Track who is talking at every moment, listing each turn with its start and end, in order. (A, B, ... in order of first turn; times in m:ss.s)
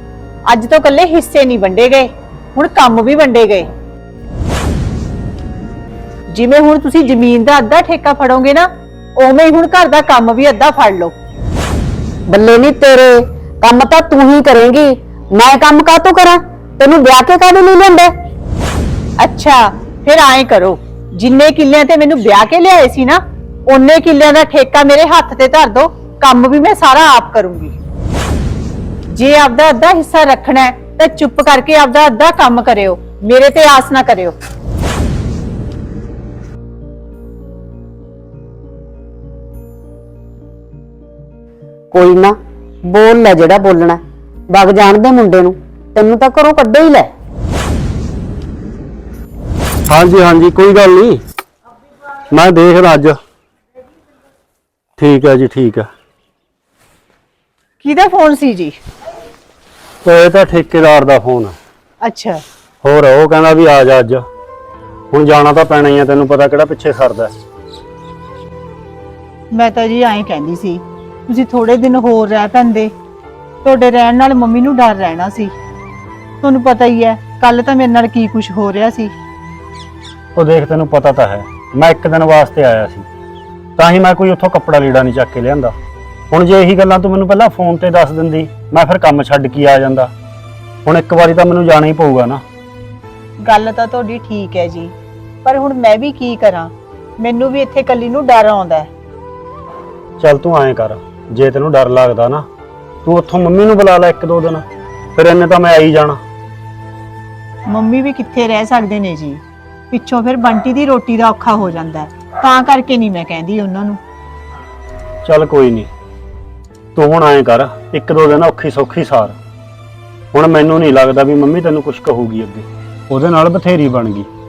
0:00.5-0:03.7 A
0:06.3-0:11.1 A
0:12.3-0:18.1 B
0:19.2-0:27.8 A
0:29.1-0:34.4 A
0:41.9-0:47.1 B
0:49.9-0:51.2 C
0:52.3-0:53.2 C
0:55.0-0:55.9 C
0:57.8-0:58.8 A
1:00.0-1:01.6 C
1:02.0-1:02.4 A
1:02.8-1:04.2 C
1:05.1-1:07.3 C
1:09.5-1:12.9 A
1:13.6-1:15.5 A
1:16.4-1:19.1 A
1:20.4-1:23.0 C
1:23.8-1:25.7 C
1:26.3-1:30.1 C
1:30.8-1:32.4 C
1:33.4-1:34.9 A
1:35.4-1:38.9 A
1:40.2-1:42.4 C
1:43.0-1:44.6 C
1:45.2-1:46.2 C
1:47.7-1:54.0 A
1:55.2-1:55.9 C
1:57.0-1:59.4 C
2:00.3-2:04.3 C